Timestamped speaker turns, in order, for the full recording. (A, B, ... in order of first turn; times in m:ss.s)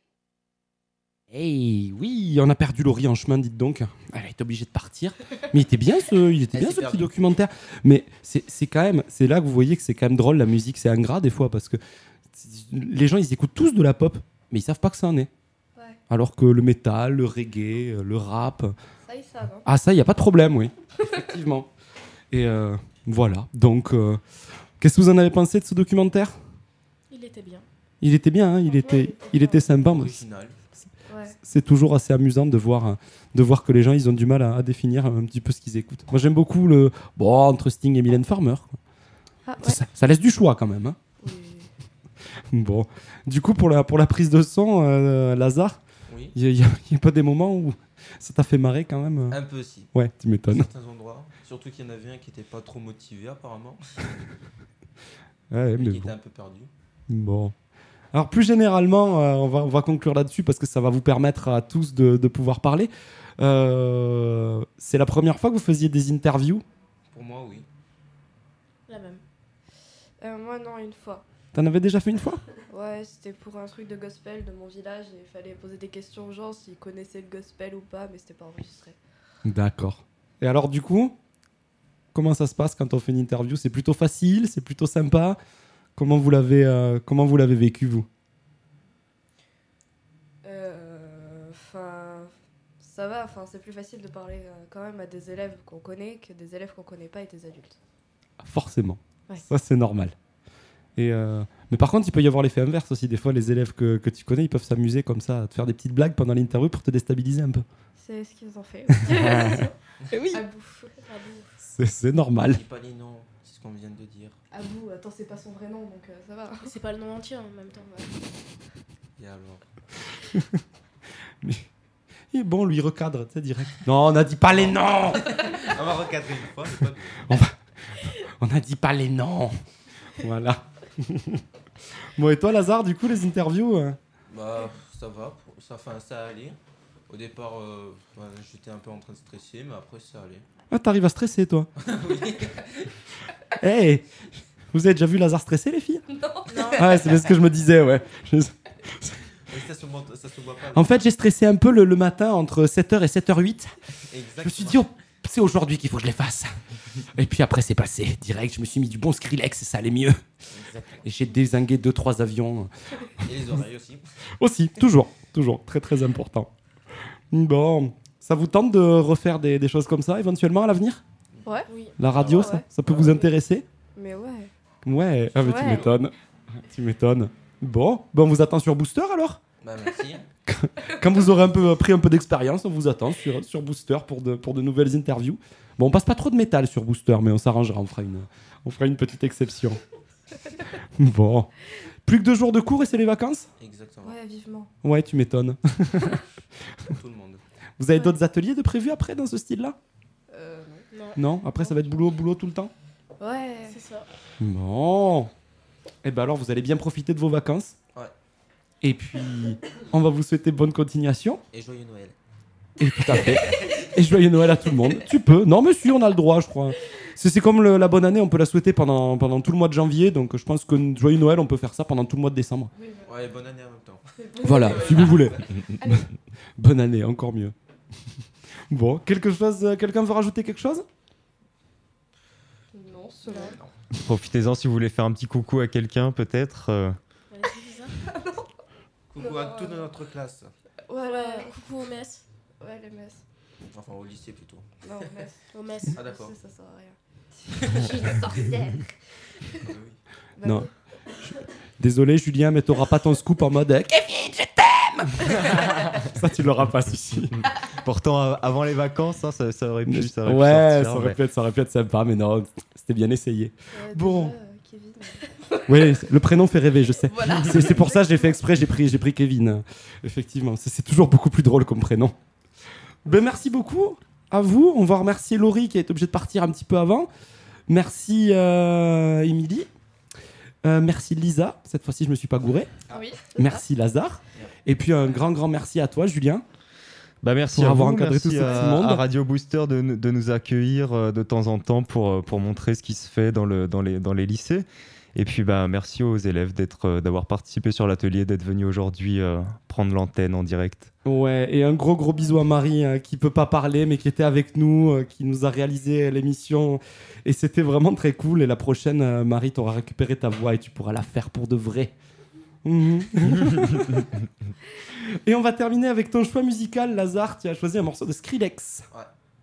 0:01.3-0:11.8 A
0:06.5-0:07.1 B
0:12.3-0:15.3 A
0:16.1-0:18.7 A
0:19.0-0:19.7 C
0:19.6-0:21.7 A
0:22.3-0:24.2 A
0:24.8-0:26.4 A
0:27.1-0:27.6 D
0:28.0-0:30.2 A
0:28.7-0:29.6 C
0:29.8-0:30.6 B
0:31.1-0:31.4 C
0:31.4-0:38.8 A
0:39.4-0:39.8 C
0:39.6-0:41.0 A
0:41.2-0:41.7 C
0:42.5-0:45.8 A
0:46.1-0:46.3 B
0:46.3-0:50.7 A
0:49.3-0:49.9 B
0:50.5-0:54.0 B
0:55.5-0:56.1 A
0:55.8-0:56.7 B
0:57.1-0:57.5 A
0:58.1-1:06.6 A
1:07.1-1:07.6 B
1:08.9-1:09.2 D
1:10.2-1:11.2 C
1:11.5-1:12.4 A
1:12.7-1:19.0 C
1:19.4-1:21.1 A
1:22.1-1:25.4 A
1:26.0-1:28.1 A
1:30.4-1:37.8 C
1:38.4-1:40.1 A
1:41.0-1:47.6 A
1:48.0-1:51.0 C
1:49.0-1:49.5 A
1:50.2-1:50.4 D
1:51.0-1:51.5 D
1:51.7-1:52.6 A
1:52.4-1:54.4 B
1:54.5-1:56.7 C
1:56.6-1:58.1 D
1:59.2-1:59.6 B
2:02.3-2:05.4 A
2:04.5-2:07.2 B
2:07.3-2:09.5 A
2:10.2-2:11.4 A
2:12.2-2:14.0 A
2:14.3-2:16.6 B
2:17.1-2:20.4 B
2:20.7-2:21.7 A
2:21.8-2:22.9 B
2:23.6-2:24.0 A
2:24.7-2:26.0 A
2:26.5-2:27.2 D
2:26.7-2:29.2 A
2:29.4-2:31.0 B
2:30.7-2:33.7 A
2:34.1-2:34.8 B
2:34.4-2:36.6 A
2:37.1-2:40.2 A
2:40.5-2:41.0 B
2:41.0-2:42.7 A
2:43.2-2:44.1 B
2:44.4-2:46.5 A
2:47.3-2:51.0 A
2:51.3-2:53.2 B
2:51.4-2:53.3 C
2:52.0-2:53.6 A
2:53.9-2:54.5 C
2:54.8-2:59.4 A
2:55.4-2:55.9 C
2:59.6-3:00.3 B
3:00.4-3:09.8 A
3:11.0-3:11.5 A
3:12.0-3:13.5 A
3:13.6-3:14.2 B
3:14.0-3:14.7 C
3:14.8-3:16.2 A
3:16.9-3:17.4 B
3:17.8-3:19.8 A
3:17.9-3:18.2 C
3:20.3-3:20.8 C
3:20.9-3:21.2 D
3:21.1-3:22.7 A
3:21.6-3:22.0 C
3:23.2-3:23.8 C
3:23.6-3:24.1 D
3:24.4-3:25.3 A
3:26.0-3:27.7 A
3:28.8-3:31.4 A
3:31.5-3:32.2 B
3:32.8-3:42.7 A
3:42.8-3:43.1 C
3:43.0-3:45.5 B
3:44.2-3:46.1 C
3:44.4-3:46.0 A
3:46.6-3:47.5 A
3:48.7-3:50.8 A
3:52.7-3:53.6 C
3:53.3-3:53.7 B
3:54.0-3:57.0 E
3:57.3-3:57.9 D
3:59.1-4:00.5 B
3:59.2-3:59.9 C
4:00.9-4:01.5 C
4:01.0-4:02.2 D
4:02.6-4:03.2 C
4:03.7-4:05.2 B
4:04.8-4:07.0 C
4:05.5-4:05.9 D
4:05.9-4:06.3 B
4:07.8-4:08.4 C
4:09.6-4:10.0 B
4:10.4-4:10.8 C
4:10.4-4:10.7 A
4:11.8-4:15.4 A
4:16.0-4:17.4 A
4:17.8-4:21.2 E
4:19.9-4:24.3 A
4:23.7-4:25.3 C
4:25.7-4:32.1 A
4:27.1-4:28.3 C
4:33.0-4:37.1 A
4:37.7-4:39.7 A
4:40.6-4:42.7 A
4:42.9-4:43.6 C
4:43.3-4:46.4 A
4:47.2-5:00.9 E
4:47.5-4:49.0 A
5:01.0-5:11.9 A
5:12.6-5:14.0 A
5:15.1-5:18.8 A